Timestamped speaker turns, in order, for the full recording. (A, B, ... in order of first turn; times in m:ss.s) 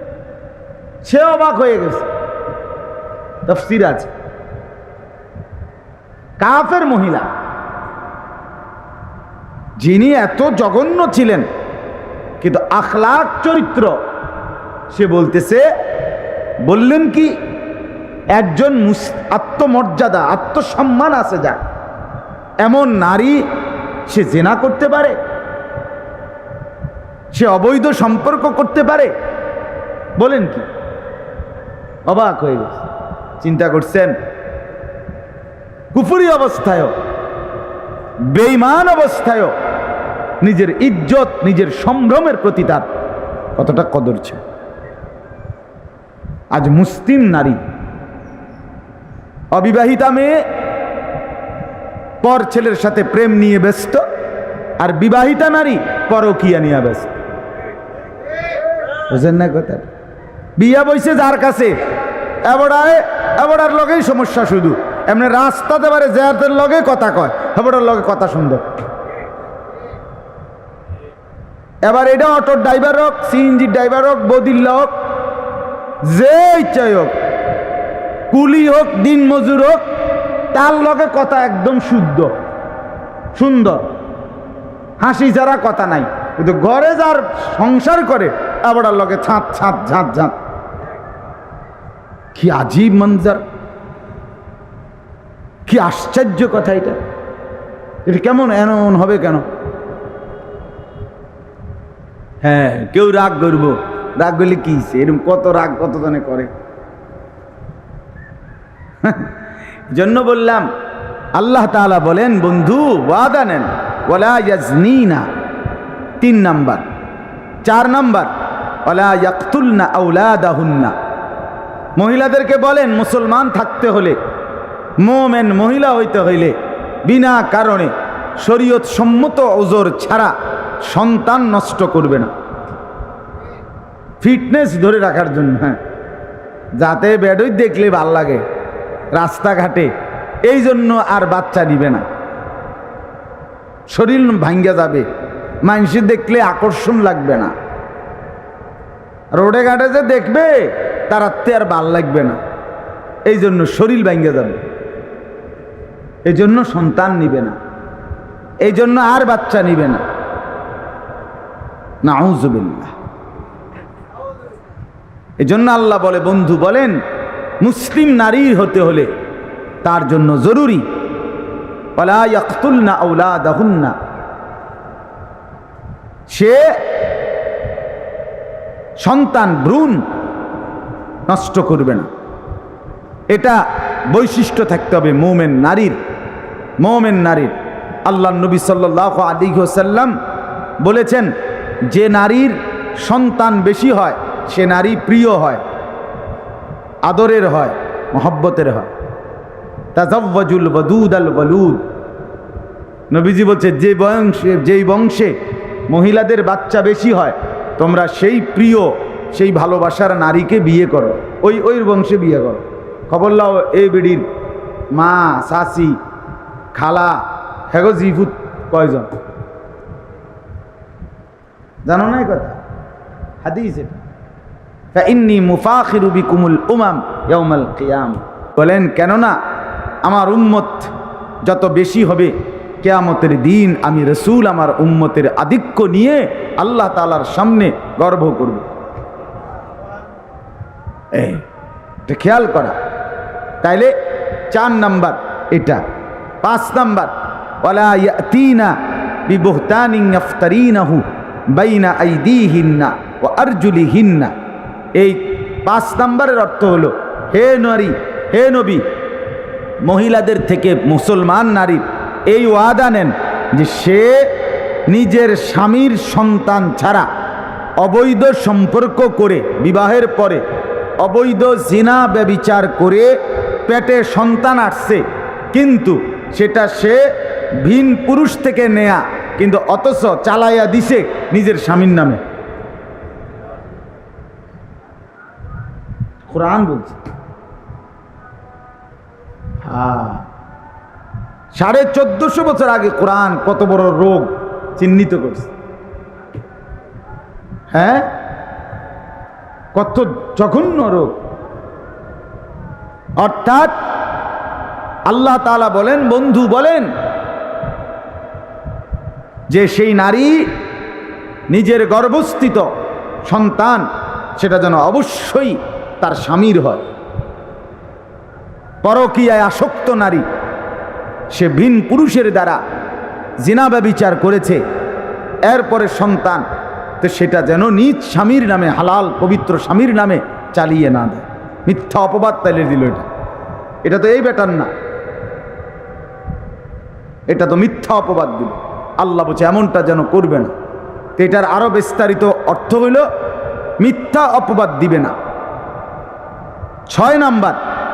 0:01.0-0:02.1 A
0:03.4-0:04.1 A
0:06.4-0:07.3 A
0:09.8-0:11.5 A
0:12.4-0:14.0 A
0:14.9-0:15.6 A
0:16.6-0:17.3 A
0:18.3-0:21.6 A
0:22.6-0:23.4 A
0:24.1-0:25.2 A
0:27.3-0:29.1 A
0:30.2-0:30.7 A
0:32.1-0:32.8 A
0:33.4-0:34.1 A
0:35.9-0:36.9 A
0:38.3-0:39.5 A
0:40.4-0:42.8 A
0:43.6-0:44.4 A
0:46.5-0:47.6 A
0:49.5-0:50.4 A
0:52.2-0:54.0 A
0:54.8-0:57.1 A
0:59.1-0:59.9 A
1:00.6-1:01.8 A
1:02.4-1:08.7 A
1:11.8-1:14.9 A
1:16.0-1:17.1 A
1:18.3-1:19.8 A
1:20.5-1:22.3 A
1:23.4-1:23.8 A
1:25.0-1:30.3 A
1:32.3-1:33.4 A
1:35.6-1:37.0 A
1:38.0-1:39.5 A
1:42.4-1:46.5 A
1:49.0-1:49.4 A
1:49.9-1:50.7 A
1:51.4-1:55.3 A
1:56.2-1:56.8 A
1:57.6-1:58.3 A
1:58.8-2:00.9 A
2:02.0-2:04.2 A
2:05.0-2:06.5 A
2:07.1-2:10.3 A
2:10.8-2:12.3 A
2:14.2-2:15.8 A
2:16.8-2:18.4 A
2:19.1-2:19.9 A
2:20.4-2:22.0 A
2:23.9-2:25.1 A
2:25.6-2:27.5 A
2:29.4-2:32.4 A
2:33.2-2:34.6 A
2:36.2-2:37.6 A
2:38.6-2:40.0 A
2:42.0-2:42.9 A
2:45.4-2:47.0 A
2:47.6-2:49.1 A
2:49.8-2:50.8 A
2:52.0-2:54.0 A
2:56.3-2:56.7 A
2:59.0-3:00.0 A
3:01.3-3:02.1 A
3:03.3-3:06.0 A
3:06.8-3:10.1 A
3:10.8-3:11.3 A
3:11.9-3:15.6 A
3:17.0-3:18.9 A
3:19.9-3:21.8 A
3:23.1-3:25.4 A
3:25.9-3:34.3 A
3:34.9-3:36.0 A
3:36.7-3:39.1 A
3:41.9-3:42.6 A
3:43.4-3:44.0 A
3:44.9-3:49.4 A
3:50.0-3:50.9 A
3:51.4-3:58.7 A
4:01.1-4:01.4 A
4:02.0-4:02.8 A
4:03.6-4:04.0 A
4:04.5-4:05.8 A
4:06.4-4:14.3 A
4:14.9-4:18.8 A
4:19.8-4:24.3 A
4:24.9-4:27.1 A
4:27.8-4:30.4 A
4:31.0-4:33.1 A
4:33.6-4:37.0 A
4:37.6-4:42.2 A
4:46.3-4:47.0 A
4:49.6-4:50.3 A
4:51.5-4:55.5 A
4:57.7-4:58.1 A
4:59.7-5:01.2 A
5:03.2-5:03.8 A
5:05.1-5:06.9 A
5:09.5-5:10.4 A
5:11.5-5:12.7 A
5:13.2-5:16.9 A
5:18.8-5:20.2 A
5:21.3-5:22.6 A
5:23.4-5:24.6 A
5:25.4-5:26.4 A
5:27.0-5:33.1 A
5:33.8-5:34.7 A
5:37.3-5:40.5 A
5:41.2-5:43.1 A
5:43.8-5:45.2 A
5:46.9-5:47.6 A